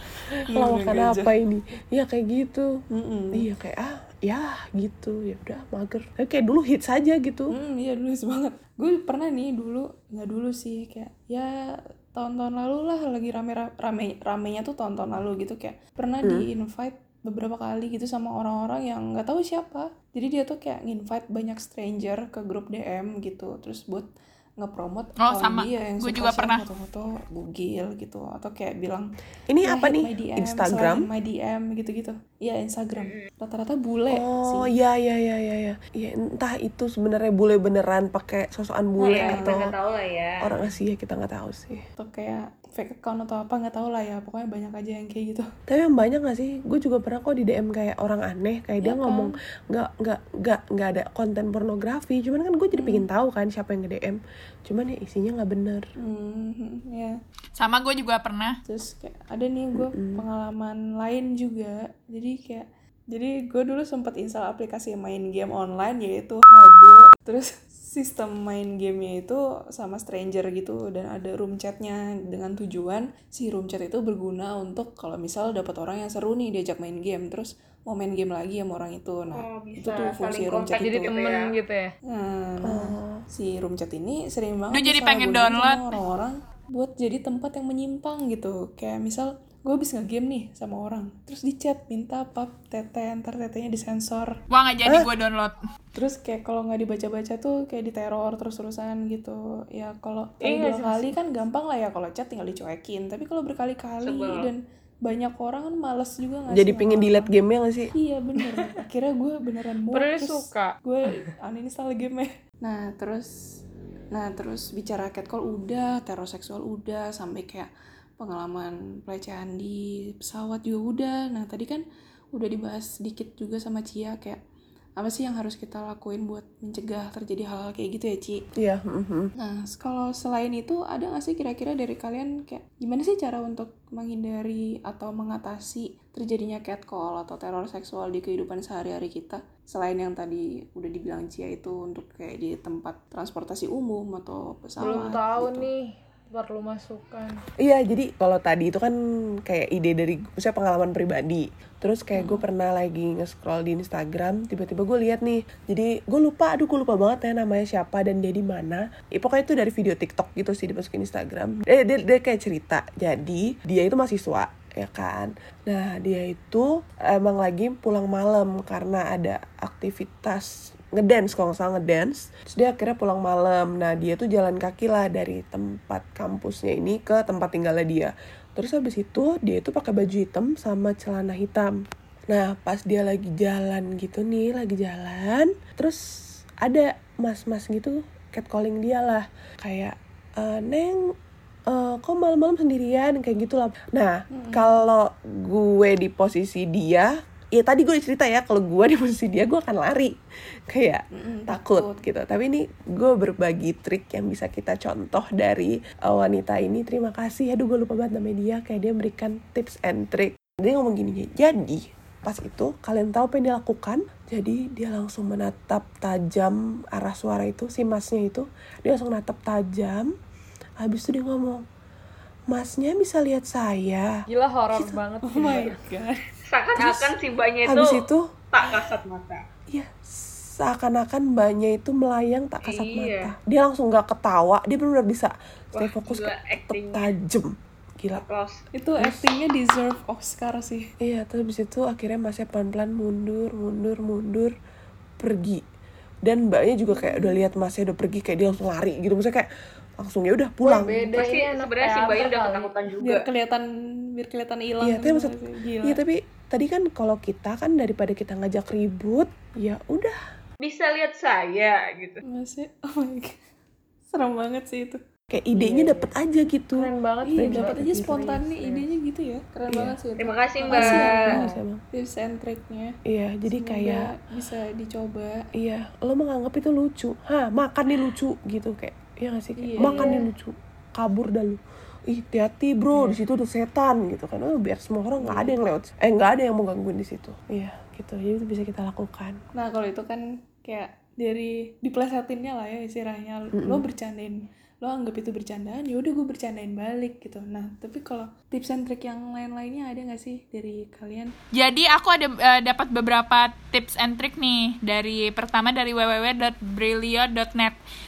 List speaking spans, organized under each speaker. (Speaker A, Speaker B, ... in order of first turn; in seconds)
Speaker A: 0.5-1.3, 2.9-3.5, 7.5-11.5, 12.1-24.1, 24.6-29.1, 29.6-34.7, 39.0-39.6, 42.0-45.4, 48.8-49.3, 52.7-53.0, 56.0-57.1, 58.7-81.1, 82.1-94.3, 95.9-107.3, 107.9-113.3, 114.1-124.4, 125.0-128.4, 129.4-145.7, 152.2-152.4, 194.3-194.8, 201.1-202.0, 225.2-226.2, 238.7-240.9, 246.9-247.3, 253.0-256.0, 262.2-263.4, 264.1-265.0, 267.2-271.4, 271.9-272.9, 273.5-275.4, 279.6-280.2, 282.9-283.2, 285.2-285.5, 289.5-301.3
Speaker B: 0.5-2.7, 3.4-7.5, 29.5-31.0, 34.1-39.6, 40.4-41.8, 45.7-55.8, 59.8-60.2, 82.7-83.2, 106.5-107.9, 128.6-129.3, 147.6-148.9, 149.4-181.7, 182.3-186.0, 186.6-191.0, 191.7-200.1, 200.7-220.1, 220.8-221.6, 222.5-224.1, 226.8-227.1, 227.7-228.2, 229.7-238.2, 239.0-239.3, 241.0-244.5, 245.2-245.6, 246.2-249.5, 250.0-251.2, 254.8-260.1, 265.3-268.3, 269.7-269.9, 270.7-271.8, 273.1-274.1, 275.6-289.4, 293.6-293.8
Speaker C: 25.2-26.6, 57.6-58.6, 84.7-85.8, 94.5-95.5, 301.5-307.8
Speaker D: 33.0-33.3, 39.1-40.4, 79.3-81.5, 104.0-104.5, 226.5-227.9, 228.5-229.4, 232.6-233.3, 235.7-237.1, 238.1-238.6, 251.1-253.2, 260.6-262.2, 270.2-271.1
Speaker E: 80.8-81.9, 100.4-101.1, 109.9-110.7, 144.8-147.4, 224.3-225.8, 250.6-252.7, 265.6-266.1, 266.8-268.9, 270.7-271.6